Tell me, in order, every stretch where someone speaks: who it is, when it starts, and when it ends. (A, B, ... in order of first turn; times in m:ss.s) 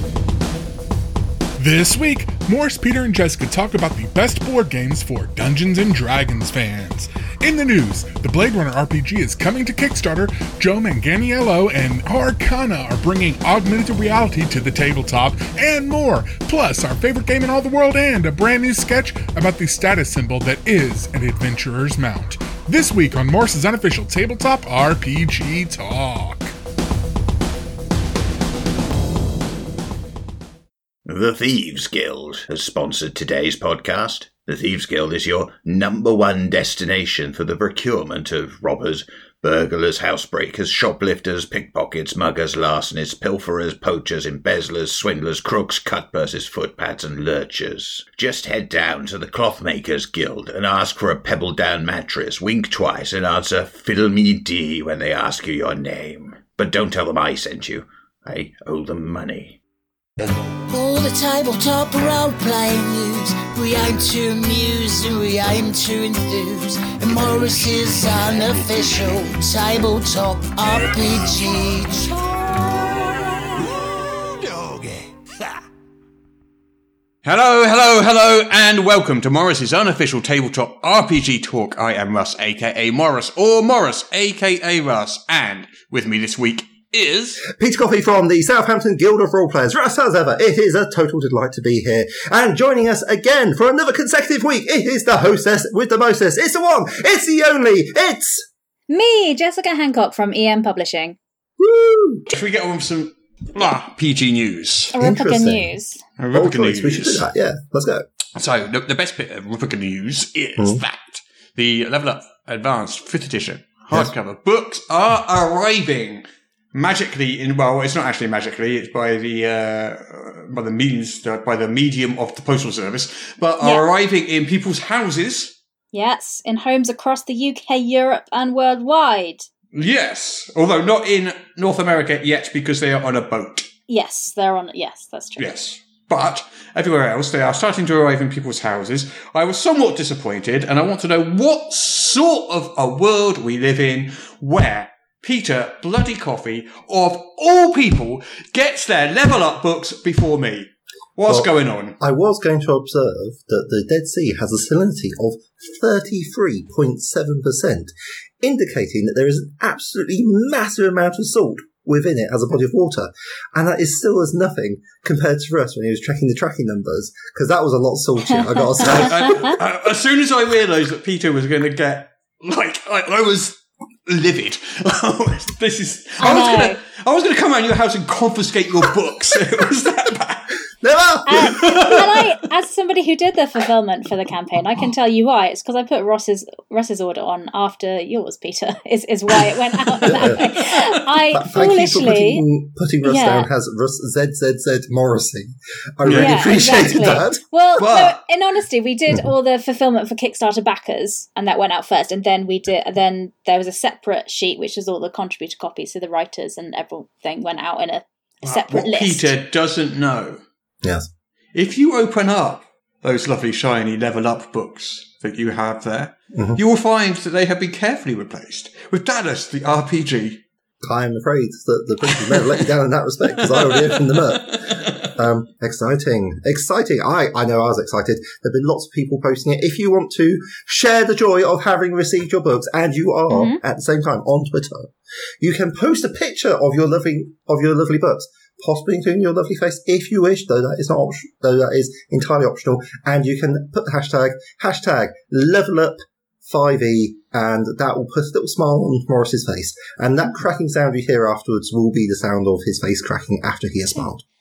0:01.6-0:26.5 A
0:31.0-0:59.6 B
1:00.7-1:12.2 C
1:12.8-1:13.7 C
1:14.5-1:15.0 C
1:17.2-1:27.4 D
1:27.4-1:38.4 E
1:38.9-1:41.2 F
1:41.6-1:42.2 E
1:42.3-1:44.9 D
1:44.9-1:46.0 F
1:45.0-1:45.7 E
1:46.2-1:47.2 D
1:46.3-1:48.0 E
1:48.4-2:05.5 D
2:05.9-2:09.5 F
2:09.7-2:13.7 D
2:13.9-2:15.4 F
2:15.4-2:32.0 D
2:31.3-2:49.5 E
2:48.2-2:49.5 F
2:48.8-3:00.6 D
2:56.2-2:56.8 F
3:00.8-3:02.0 E
3:01.3-3:12.4 F
3:01.5-3:02.3 D
3:09.9-3:10.8 D
3:10.0-3:10.4 E
3:11.3-3:17.4 E
3:13.0-3:13.5 F
3:16.0-3:17.2 D
3:16.1-3:29.3 F
3:17.8-3:18.2 D
3:28.4-3:30.4 D
3:30.8-3:31.1 E
3:31.5-3:40.4 D
3:36.3-3:36.6 E
3:40.8-4:14.2 E
3:42.1-3:42.5 D
3:43.4-3:45.1 D
3:53.3-3:53.6 F